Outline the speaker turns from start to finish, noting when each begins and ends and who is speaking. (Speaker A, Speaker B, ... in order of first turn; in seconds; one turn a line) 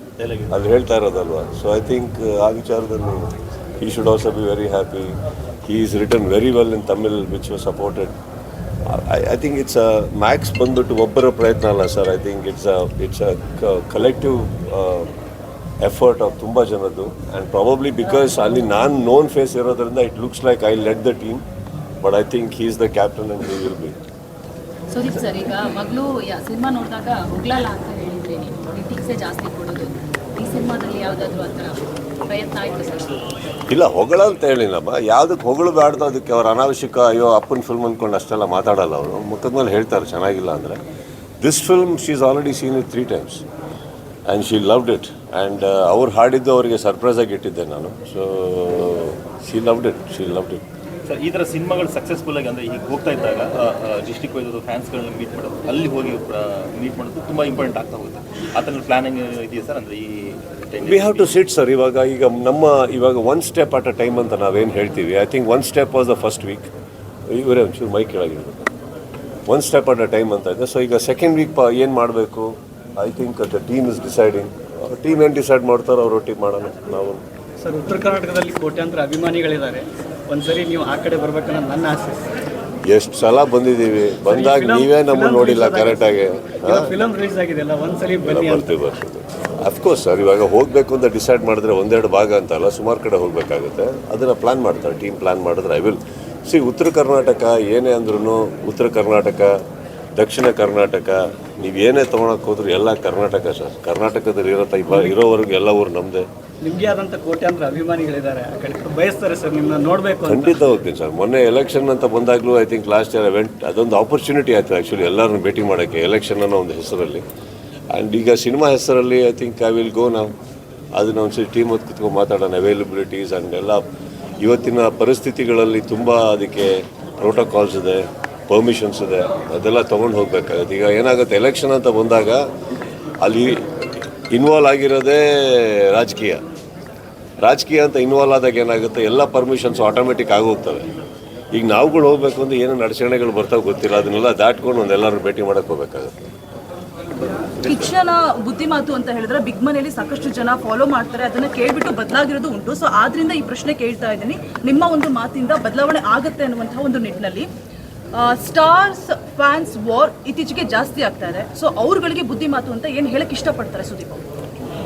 Speaker A: 0.2-0.5
Speaker B: 0.5-8.1
Speaker B: 8.8-15.1
Speaker B: 15.8-21.4
Speaker B: 22.0-24.0
Speaker C: 24.9-33.1
Speaker B: 33.7-40.8
Speaker B: 41.4-43.4
Speaker B: 44.3-50.6
Speaker A: 51.1-61.3
Speaker B: 60.8-66.7
Speaker B: 67.3-68.7
Speaker B: 69.5-77.2
Speaker D: 77.7-82.2
Speaker B: 82.8-86.9
Speaker E: 84.3-86.2
Speaker D: 85.3-85.8
Speaker D: 86.8-88.6
Speaker B: 88.2-99.6
Speaker B: 100.2-106.2
Speaker D: 106.7-110.3
Speaker B: 110.2-117.2
Speaker E: 110.3-110.6
Speaker B: 117.9-120.3
Speaker B: 121.0-123.8
Speaker B: 124.4-132.4
Speaker B: 133.2-133.7
Speaker B: 134.3-136.4
Speaker B: 137.4-140.9
Speaker B: 141.5-146.3
Speaker E: 147.6-157.5
Speaker E: 158.1-164.2